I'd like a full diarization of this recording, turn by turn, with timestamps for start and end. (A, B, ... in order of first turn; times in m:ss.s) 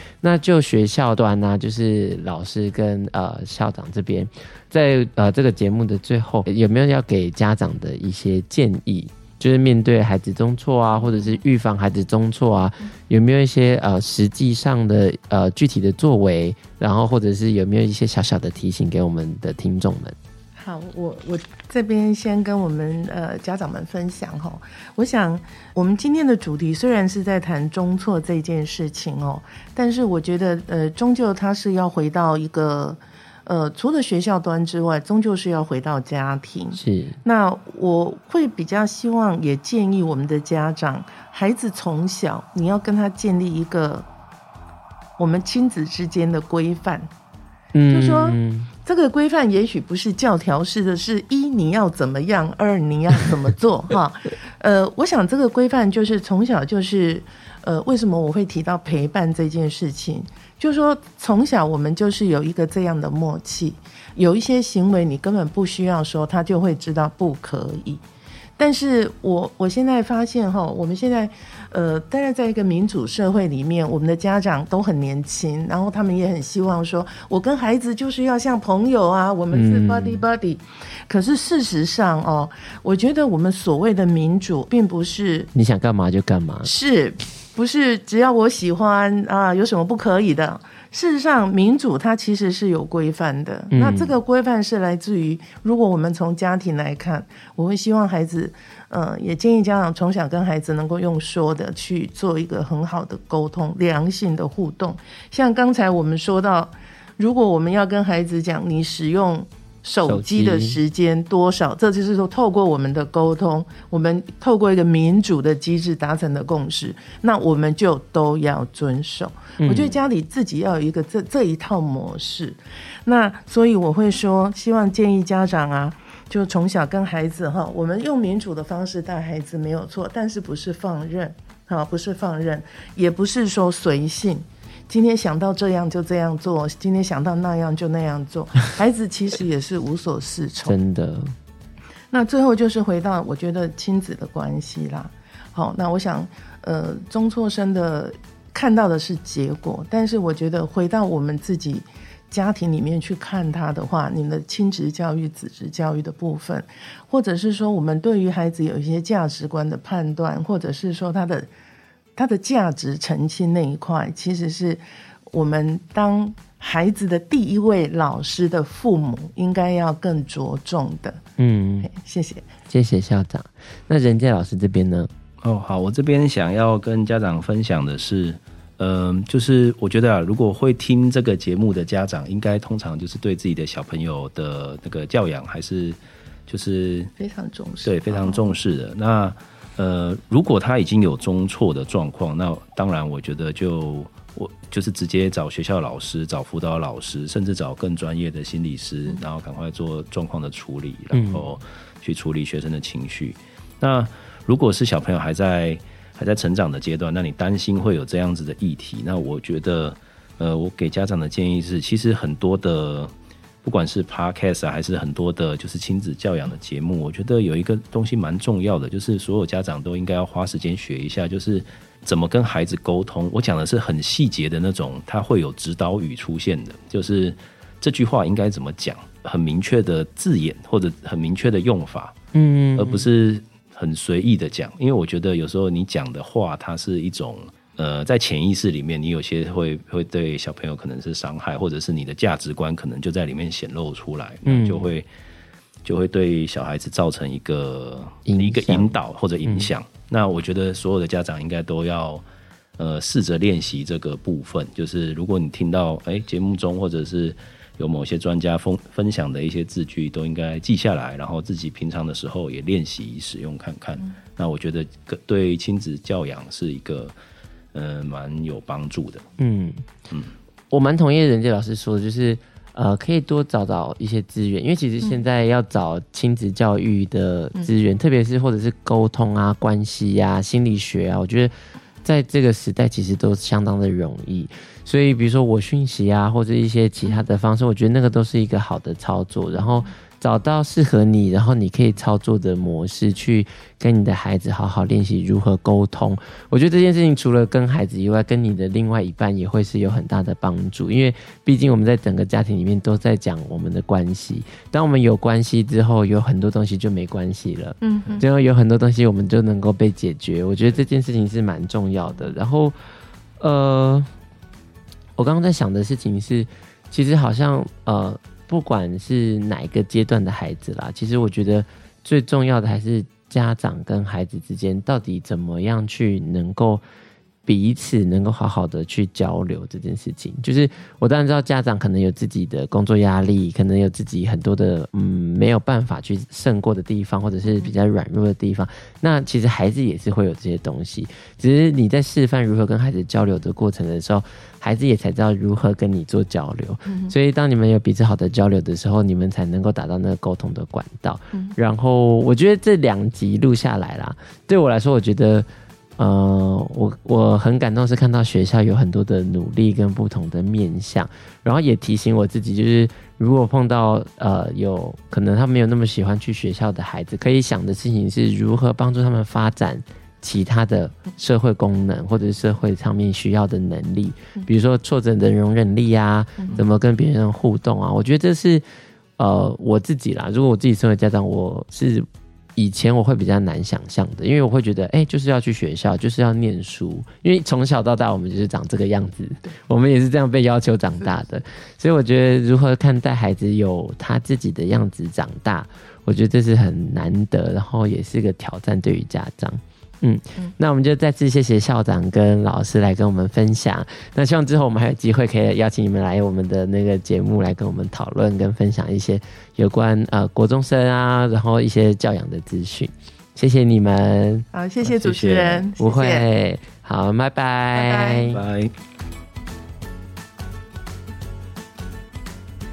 0:00.2-0:20.2 A
0:11.0-0:11.3 B
0:20.6-0:44.1 B
0:36.8-0:37.2 A
0:45.2-0:47.1 B
0:47.7-0:48.7 A
0:47.9-1:08.0 B
1:08.6-1:25.5 B
1:19.5-1:20.2 A
1:25.5-1:26.7 A
1:26.6-2:20.8 B
1:33.7-1:34.1 A
1:50.1-1:50.8 A
1:59.6-2:00.0 A
2:20.6-2:21.3 A
2:22.1-2:41.5 B
2:42.2-2:51.2 B
2:51.4-2:51.9 A
2:51.8-2:52.5 B
2:52.7-2:55.1 A
2:55.4-3:07.1 C
3:07.2-3:08.4 B
3:07.8-3:33.1 C
3:21.1-3:21.4 A
3:33.6-3:52.2 C
3:52.3-3:53.1 A
3:52.8-4:05.1 C
4:04.5-4:04.9 A
4:05.8-4:12.2 C
4:08.3-4:08.9 A
4:09.4-4:09.7 A
4:12.8-4:27.1 C
4:27.7-4:29.3 C
4:29.4-4:29.9 A
4:30.7-5:12.8 A
4:49.5-4:49.9 B
5:07.8-5:08.3 B
5:13.4-5:14.1 A
5:15.2-5:26.8 A
5:27.5-6:18.6 A
5:46.9-5:47.1 B
6:16.4-6:16.6 B
6:19.2-6:54.5 A
6:54.5-6:56.3 B
6:55.0-6:55.6 C
6:55.8-6:58.4 A
6:57.7-6:58.4 B
6:58.3-6:58.7 C